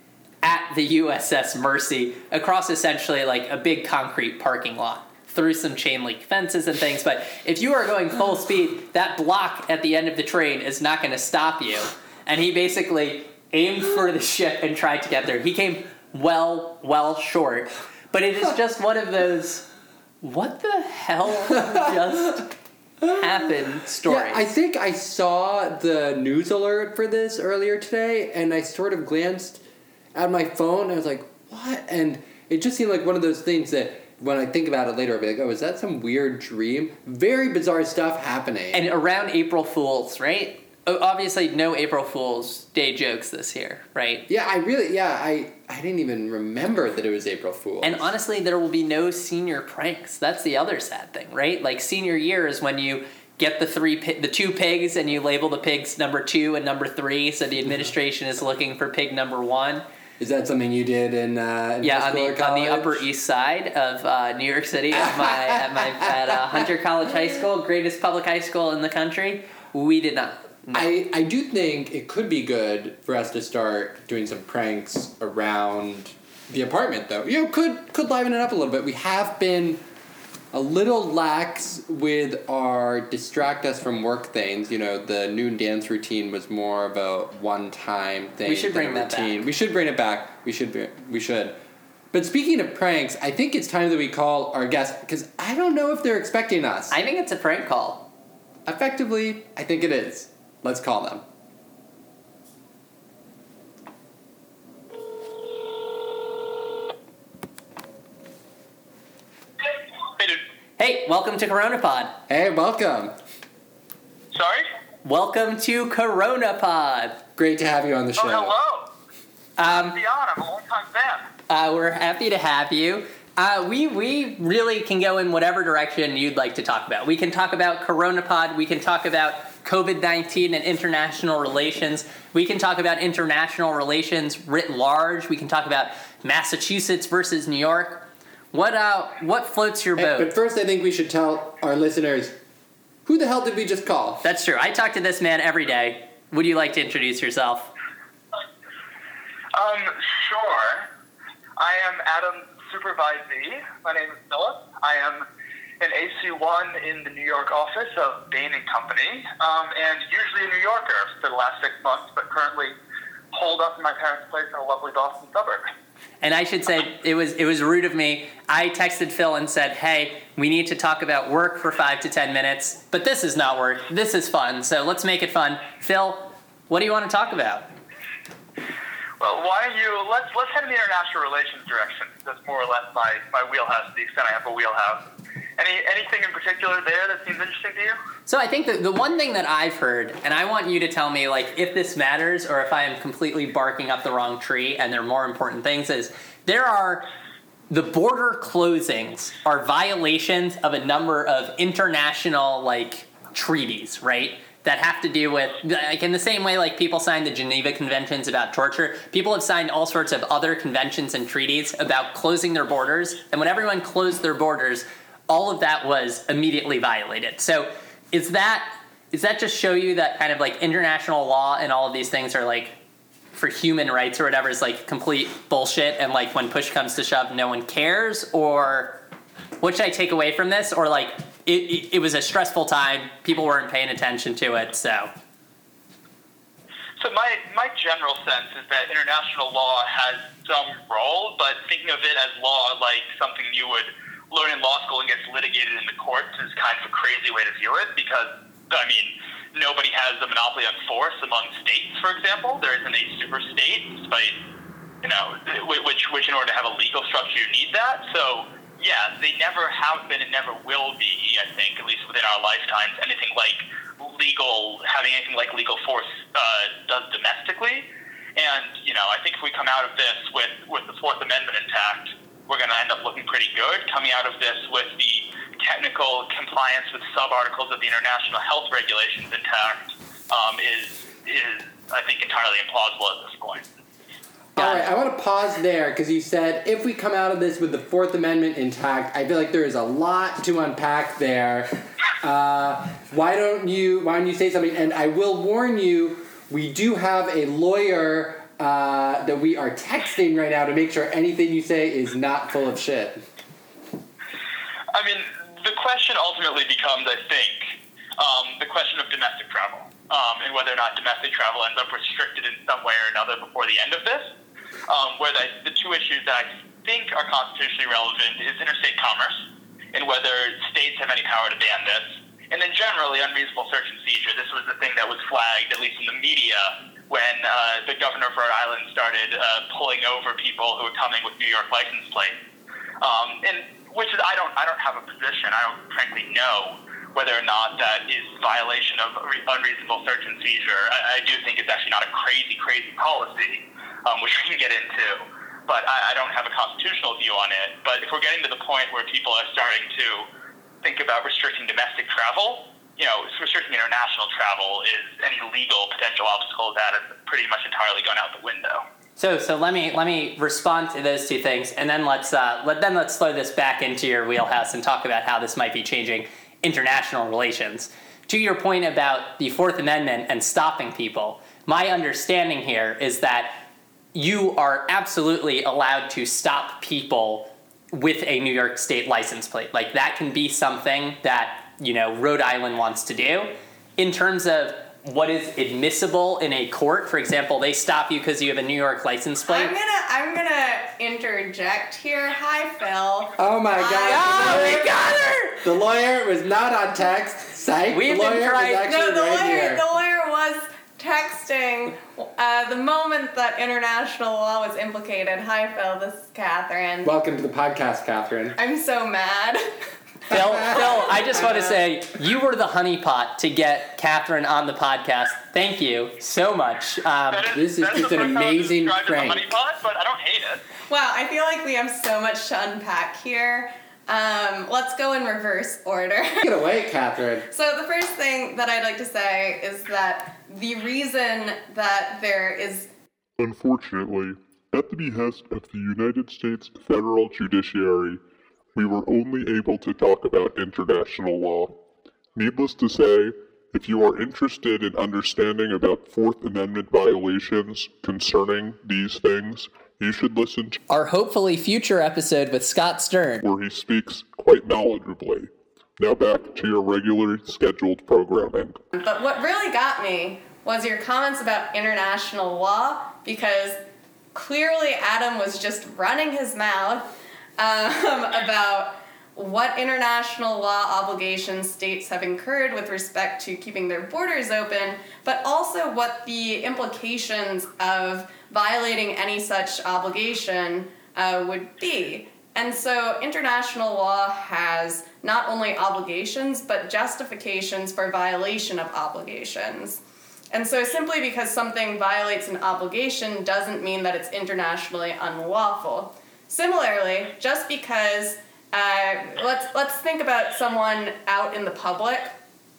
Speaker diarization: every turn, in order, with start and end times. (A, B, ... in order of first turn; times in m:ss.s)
0:00.4-0:19.7 A
0:20.2-0:22.5 A
0:23.0-0:23.5 B
0:23.1-0:24.5 A
0:24.0-0:29.6 B
0:30.1-0:38.8 B
0:38.7-0:44.2 A
0:44.3-0:48.1 B
0:47.8-0:59.8 A
1:00.2-1:03.0 B
1:01.8-1:10.9 A
1:04.9-1:06.7 B
1:10.7-1:19.8 B
1:20.5-1:31.6 B
1:28.4-1:29.4 A
1:32.1-1:37.0 B
1:36.9-1:38.1 A
1:38.6-1:41.2 B
1:50.8-1:52.2 A
1:52.3-1:53.2 B
1:54.3-1:54.7 C
1:55.0-1:57.2 A
1:57.4-1:58.5 B
1:58.2-1:58.9 C
1:59.6-2:00.0 A
1:59.6-2:01.3 C
2:01.5-2:20.3 A
2:20.0-2:22.4 B
2:23.0-2:24.2 B
2:24.2-2:27.7 A
2:29.5-2:30.9 C
2:31.6-2:35.2 C
2:35.8-2:42.8 C
2:43.3-2:45.6 C
2:46.2-2:57.7 A
2:59.2-3:05.0 C
3:05.6-3:08.0 C
3:08.3-3:17.0 A
3:17.7-3:42.8 A
3:43.3-3:49.0 A
3:49.6-3:55.1 A
3:57.0-4:14.3 C
4:15.0-4:43.6 C
4:44.6-5:03.2 B
4:44.6-4:44.9 A
5:04.9-5:14.3 C
5:14.9-5:32.3 C
5:33.0-5:50.3 C
5:50.8-5:58.8 C
5:59.2-6:29.7 A
6:29.5-6:34.9 D
6:33.4-6:34.9 B
6:34.0-6:35.6 A
6:35.6-6:39.8 B
6:37.9-6:38.9 A
6:38.8-6:47.1 D
6:47.0-6:48.6 B
6:48.6-6:49.8 D
6:50.3-6:57.5 A
6:50.3-6:51.6 B
6:57.3-7:00.6 C
6:57.5-6:59.5 B
7:00.9-7:06.5 D
7:06.4-7:07.5 B
7:07.5-7:12.9 D
7:13.4-7:18.2 E
7:18.7-7:21.7 E
7:22.3-7:30.8 E
7:30.9-7:33.5 A
7:33.4-7:38.8 E
7:38.9-7:43.8 D
7:44.3-8:10.0 D
8:10.5-8:22.4 D